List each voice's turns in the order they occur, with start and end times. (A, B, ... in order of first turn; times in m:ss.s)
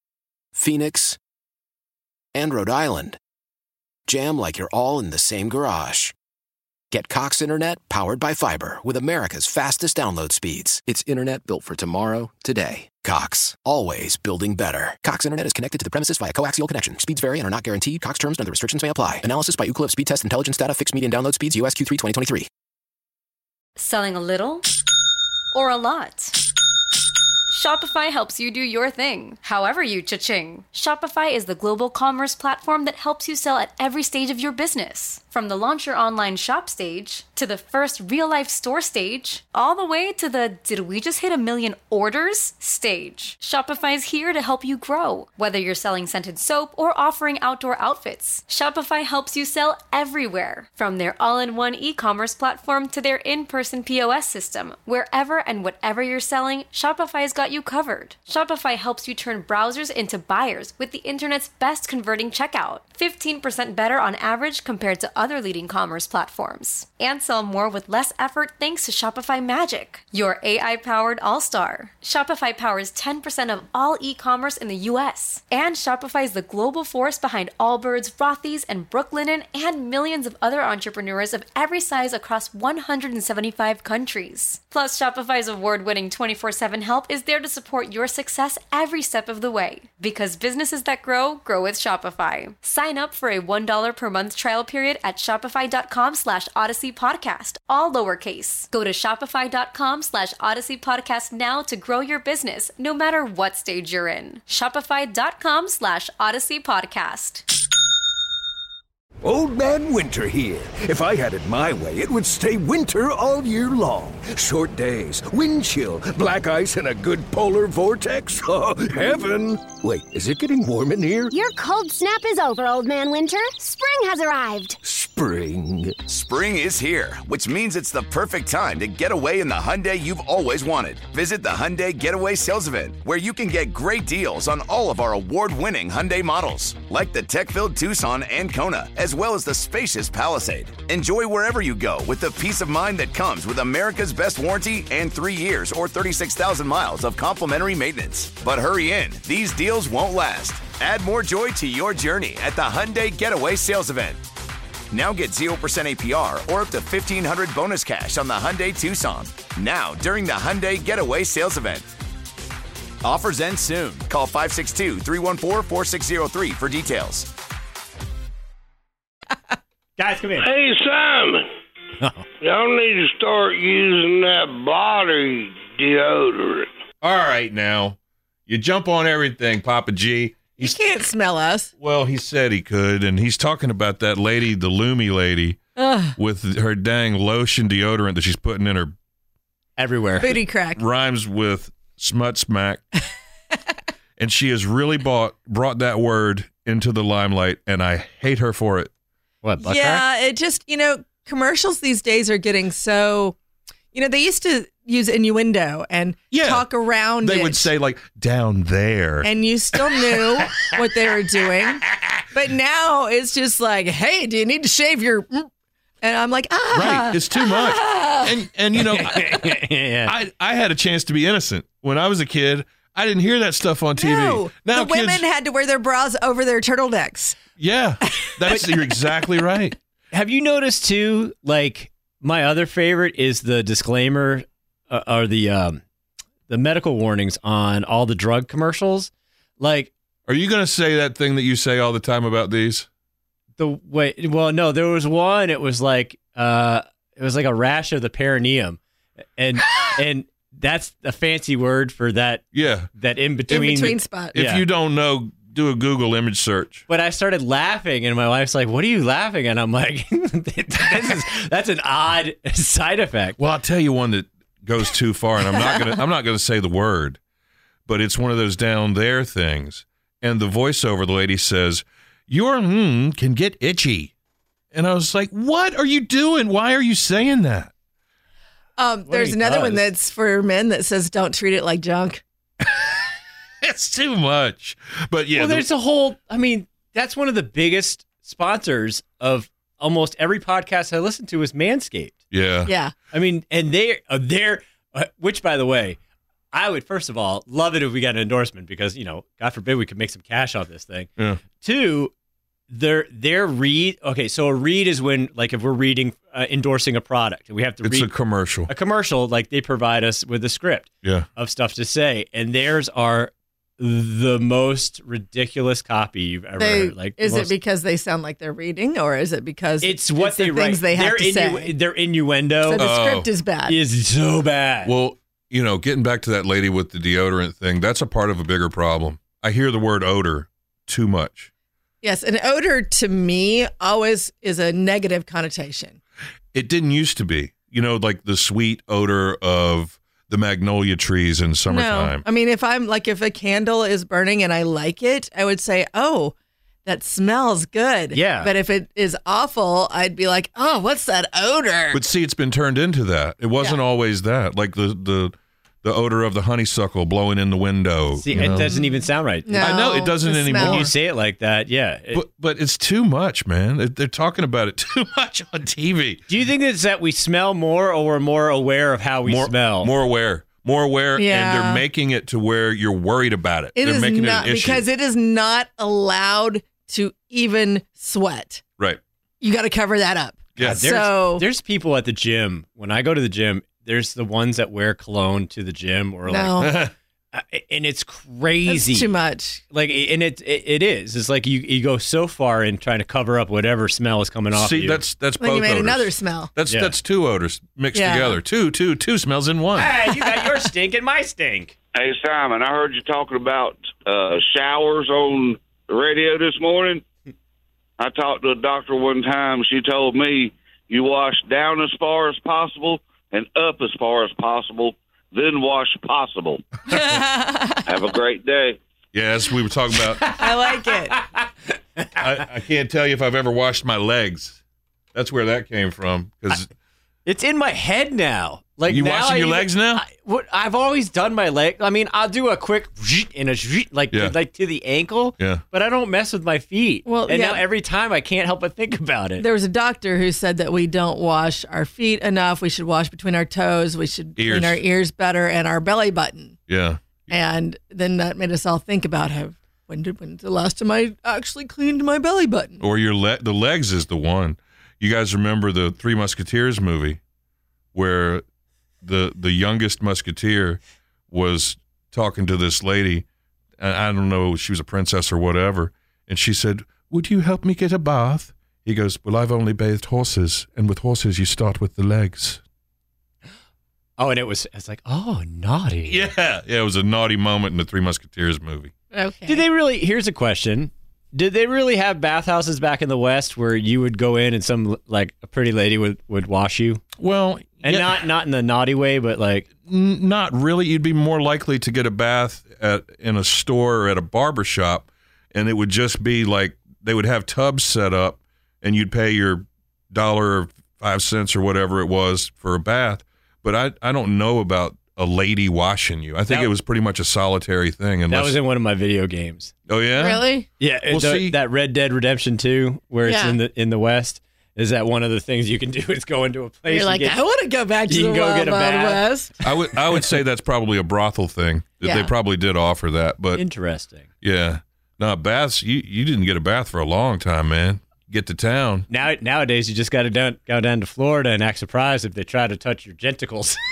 0:00.5-0:01.2 A
0:02.3-0:03.2 A
0:04.1-0:06.1 A
0:06.9-0:22.5 A
0:23.8-0:24.7 B
0:25.5-0:26.4 B
0:27.5-1:47.4 B
1:49.2-2:01.3 C
2:01.3-2:04.8 D
2:04.8-2:06.1 C
2:06.1-2:34.2 E
2:34.9-2:41.9 E
2:43.0-2:47.3 E
2:50.0-2:50.5 F
2:50.4-2:51.4 G
2:52.0-2:52.2 F
2:52.4-2:56.7 G
2:57.0-3:00.8 H
3:00.6-3:01.7 I
3:01.8-3:05.6 H
3:05.8-3:06.2 I
3:06.2-3:08.9 H
3:09.8-3:10.4 F
3:10.2-3:10.8 I
3:10.8-3:12.8 H
3:14.2-3:18.9 H
3:19.4-3:20.0 F
3:19.6-3:23.4 I
3:23.9-3:27.7 I
3:26.3-3:26.6 H
3:27.2-3:29.3 H
3:29.2-3:35.5 I
3:36.0-3:38.3 I
3:36.7-3:39.4 H
3:38.8-3:40.1 F
3:40.0-3:45.2 H
3:44.0-3:47.4 I
3:47.6-3:49.7 H
3:48.5-3:48.7 I
3:50.1-3:55.8 F
3:56.5-3:59.9 F
4:00.3-4:02.9 H
4:03.6-4:08.8 F
4:09.4-4:14.6 F
4:12.5-4:12.9 H
4:13.5-4:14.4 I
4:14.3-4:16.8 H
4:16.9-4:23.4 F
4:23.4-4:27.2 H
4:27.8-4:34.1 H
4:34.7-4:37.7 H
4:38.8-4:42.2 I
4:39.1-4:39.9 F
4:43.6-4:45.6 H
4:45.3-4:52.2 F
4:52.3-4:52.7 H
4:52.7-4:52.9 I
4:53.1-4:56.0 F
4:56.5-5:02.1 F
5:02.7-5:08.1 F
5:07.8-5:08.7 H
5:08.7-5:17.5 F
5:16.6-5:21.7 I
5:19.8-5:22.9 F
5:22.6-5:23.8 I
5:22.8-5:23.3 H
5:23.6-5:24.9 F
5:24.8-5:31.5 H
5:32.0-5:36.0 I
5:36.5-5:42.2 H
5:41.6-5:46.3 I
5:46.8-5:52.0 I
5:48.1-5:48.5 F
5:51.9-5:58.7 H
5:58.2-5:59.8 F
5:58.4-6:00.9 I
5:59.6-6:00.9 H
6:00.5-6:02.2 F
6:02.1-6:06.2 H
6:06.3-6:09.9 F
6:09.2-6:14.8 H
6:11.2-6:11.8 I
6:13.8-6:18.6 I
6:19.4-6:21.4 I
6:20.6-6:20.9 H
6:20.6-6:26.7 F
6:26.3-6:26.7 I
6:26.6-6:26.9 H
6:27.3-6:29.1 F
6:28.7-6:29.6 I
6:29.7-6:35.0 F
6:34.5-6:39.9 H
6:35.4-6:36.5 I
6:36.6-6:36.9 F
6:37.9-6:38.4 I
6:39.8-6:41.7 F
6:41.9-6:47.0 J
6:48.0-6:56.6 J
6:56.9-6:57.8 I
6:57.8-6:58.8 J
6:59.1-7:00.3 H
7:00.4-7:01.2 I
7:01.2-7:01.4 F
7:02.0-7:02.2 F
7:02.2-7:04.6 H
7:05.1-7:06.7 H
7:07.2-7:19.4 F
7:08.9-7:10.0 H
7:17.0-7:17.6 I
7:19.4-7:26.6 I
7:24.4-7:24.8 H
7:26.7-7:27.3 H
7:27.3-7:32.8 I
7:32.8-7:37.2 H
7:37.9-7:38.4 H
7:39.0-7:43.2 H
7:43.8-7:52.6 H
7:54.2-7:56.3 F
7:56.1-7:58.9 H
7:59.1-7:59.6 I
7:59.5-8:07.0 F
8:07.2-8:08.2 H
8:07.8-8:09.7 F
8:09.8-8:28.6 H
8:26.5-8:26.7 F
8:28.3-8:29.7 F
8:29.9-8:30.5 H
8:30.2-8:30.7 I
8:30.8-8:37.4 F
8:31.1-8:31.6 H
8:33.2-8:33.6 I
8:36.9-8:39.6 I
8:38.1-8:39.2 F
8:39.6-8:43.6 H
8:42.0-8:42.3 I
8:43.5-8:44.2 F
8:44.4-8:49.0 H
8:49.1-8:53.8 F